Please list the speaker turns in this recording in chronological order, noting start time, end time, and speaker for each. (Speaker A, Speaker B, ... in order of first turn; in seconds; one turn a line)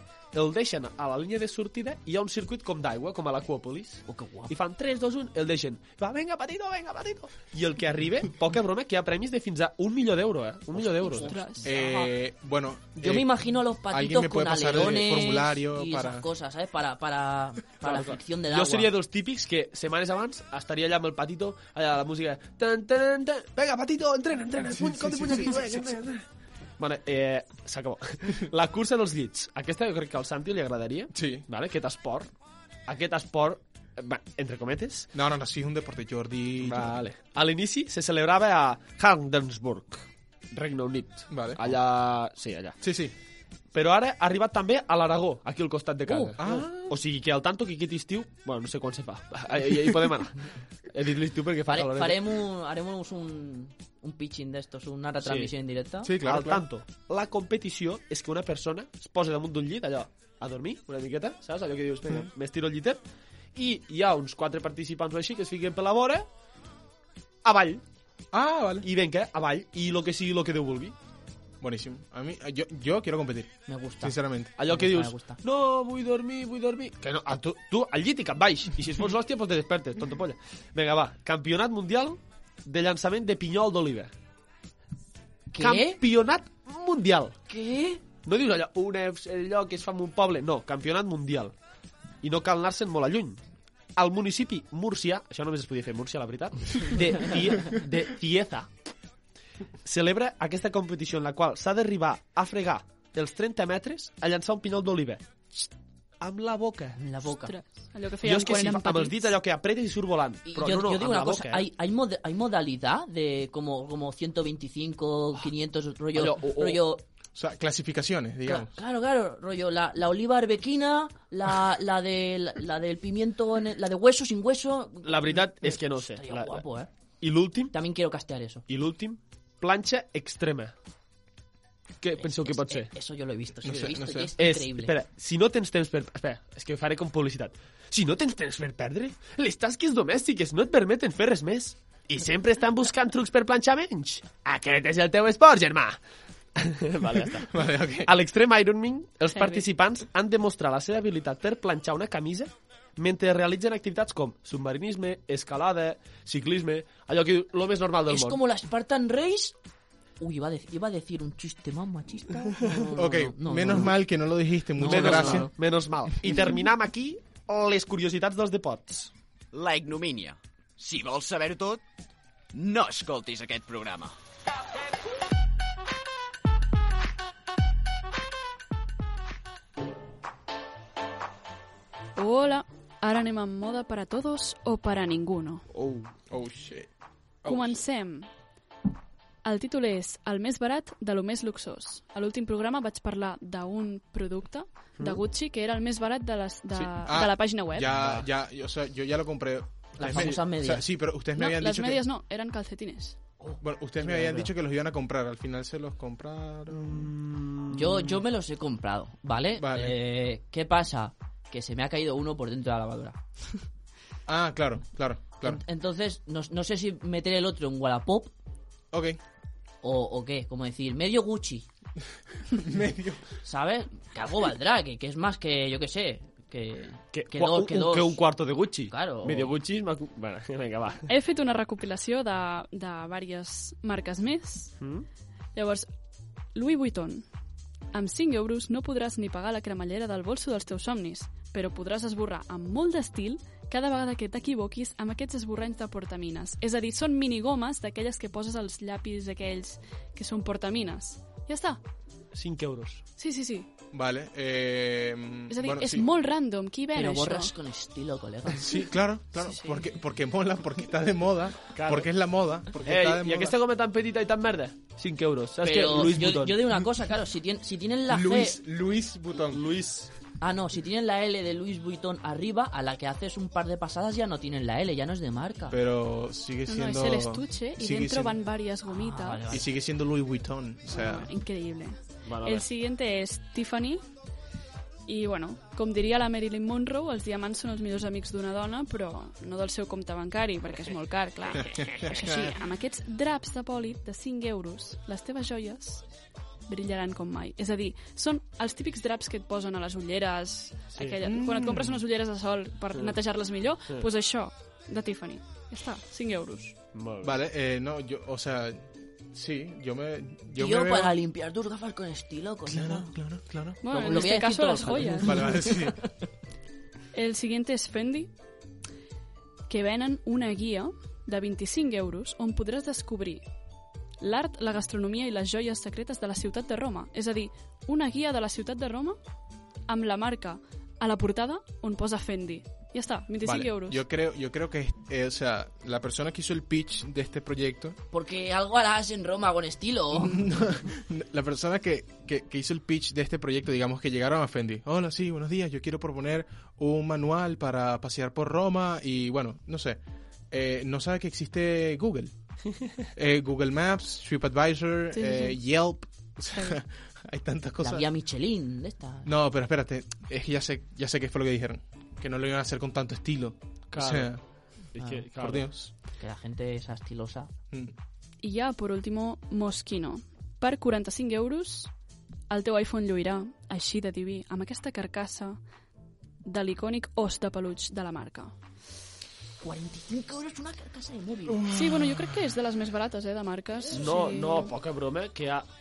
Speaker A: 0.3-11.3
Speaker B: 4.1-4.5
Speaker B: 10.8-12.1
Speaker C: 11.1-11.7
Speaker D: 11.6-13.3
Speaker B: 13.0-18.9
Speaker D: 13.9-16.2
Speaker A: 17.8-26.2
Speaker D: 24.7-25.8
Speaker A: 26.8-32.3
Speaker D: 31.1-31.4
Speaker A: 32.9-35.1
Speaker D: 35.1-37.0
Speaker A: 36.6-42.8
Speaker D: 41.3-41.7
Speaker D: 42.8-43.1
Speaker A: 43.7-52.3
Speaker B: 46.1-46.4
Speaker D: 46.4-47.0
Speaker B: 51.7-56.1
Speaker A: 55.2-55.5
Speaker D: 56.0-56.6
Speaker A: 56.2-63.0
Speaker A: 63.5-66.3
Speaker A: 67.4-67.8
Speaker D: 68.3-68.9
Speaker A: 68.8-70.9
Speaker D: 71.6-74.5
Speaker B: 73.7-75.4
Speaker A: 74.6-84.1
Speaker B: 85.5-86.0
Speaker A: 85.6-87.4
Speaker B: 87.5-88.0
Speaker A: 88.2-91.5
Speaker A: 92.2-93.4
Speaker A: 94.0-98.7
Speaker A: 99.8-105.7
Speaker A: 106.2-107.0
Speaker B: 107.0-107.5
Speaker C: 107.3-109.3
Speaker A: 108.2-111.7
Speaker B: 110.5-117.0
Speaker A: 116.1-116.8
Speaker D: 117.3-118.8
Speaker B: 118.5-126.9
Speaker A: 125.0-126.6
Speaker A: 127.2-127.7
Speaker B: 127.7-128.6
Speaker A: 128.7-130.7
Speaker A: 132.0-132.9
Speaker B: 132.2-134.9
Speaker D: 133.6-134.3
Speaker A: 134.4-146.0
Speaker A: 146.6-147.5
Speaker D: 147.4-148.1
Speaker A: 148.0-158.4
Speaker C: 149.3-149.6
Speaker B: 158.1-159.5
Speaker B: 160.2-163.9
Speaker D: 162.9-165.5
Speaker B: 164.8-165.5
Speaker A: 164.8-169.1
Speaker E: 169.5-171.8
Speaker E: 172.5-174.1
Speaker C: 182.2-185.6
Speaker A: 185.7-186.1
Speaker D: 186.3-186.9
Speaker D: 187.4-187.8
Speaker C: 187.4-188.3
Speaker C: 189.4-197.9
Speaker A: 195.0-195.2
Speaker D: 196.7-202.0
Speaker A: 197.9-198.2
Speaker B: 200.0-200.9
Speaker A: 200.1-200.3
Speaker C: 201.3-203.2
Speaker A: 203.4-204.5
Speaker D: 203.6-207.1
Speaker A: 206.7-208.2
Speaker B: 207.7-213.2
Speaker D: 209.6-210.0
Speaker D: 214.2-215.6
Speaker B: 215.4-218.3
Speaker D: 218.9-219.2
Speaker B: 219.8-221.7
Speaker D: 222.5-223.2
Speaker B: 223.4-228.2
Speaker A: 227.1-231.1
Speaker B: 228.9-229.5
Speaker C: 231.1-234.7
Speaker A: 234.8-235.1
Speaker C: 235.5-235.9
Speaker C: 236.5-237.2
Speaker C: 237.9-251.8
Speaker A: 252.3-253.0
Speaker C: 253.2-253.7
Speaker D: 253.9-256.1
Speaker C: 255.5-257.5
Speaker B: 256.9-258.9
Speaker D: 258.6-263.6
Speaker A: 261.7-262.1
Speaker A: 262.8-266.8
Speaker B: 265.6-268.6
Speaker D: 268.1-269.6
Speaker A: 269.5-270.1
Speaker B: 270.4-275.8
Speaker D: 275.7-278.4
Speaker C: 276.7-279.5
Speaker B: 278.9-279.7
Speaker D: 279.5-281.3
Speaker C: 280.9-284.0
Speaker A: 282.2-282.7
Speaker C: 285.1-296.0
Speaker D: 292.1-292.3
Speaker C: 296.7-306.8
Speaker A: 300.9-301.2
Speaker D: 301.2-302.0
Speaker A: 306.9-307.3
Speaker D: 307.2-311.1
Speaker B: 310.6-313.1
Speaker D: 312.7-313.8
Speaker C: 313.8-315.6
Speaker B: 313.9-316.2
Speaker D: 315.2-316.1
Speaker C: 317.1-318.3
Speaker C: 319.7-323.4
Speaker C: 324.2-329.2
Speaker C: 329.9-334.0
Speaker D: 333.4-338.0
Speaker B: 338.1-340.6
Speaker D: 340.1-352.3
Speaker D: 353.1-358.1
Speaker C: 355.1-355.6
Speaker B: 357.8-359.3
Speaker D: 359.2-364.4
Speaker A: 363.9-364.4
Speaker A: 364.9-365.7
Speaker B: 365.0-365.2
Speaker D: 365.4-365.9
Speaker B: 366.1-367.5
Speaker C: 368.4-371.9
Speaker C: 372.5-375.6
Speaker C: 376.4-378.5
Speaker B: 379.6-381.6
Speaker D: 381.5-382.4
Speaker C: 381.7-384.7
Speaker A: 383.9-385.6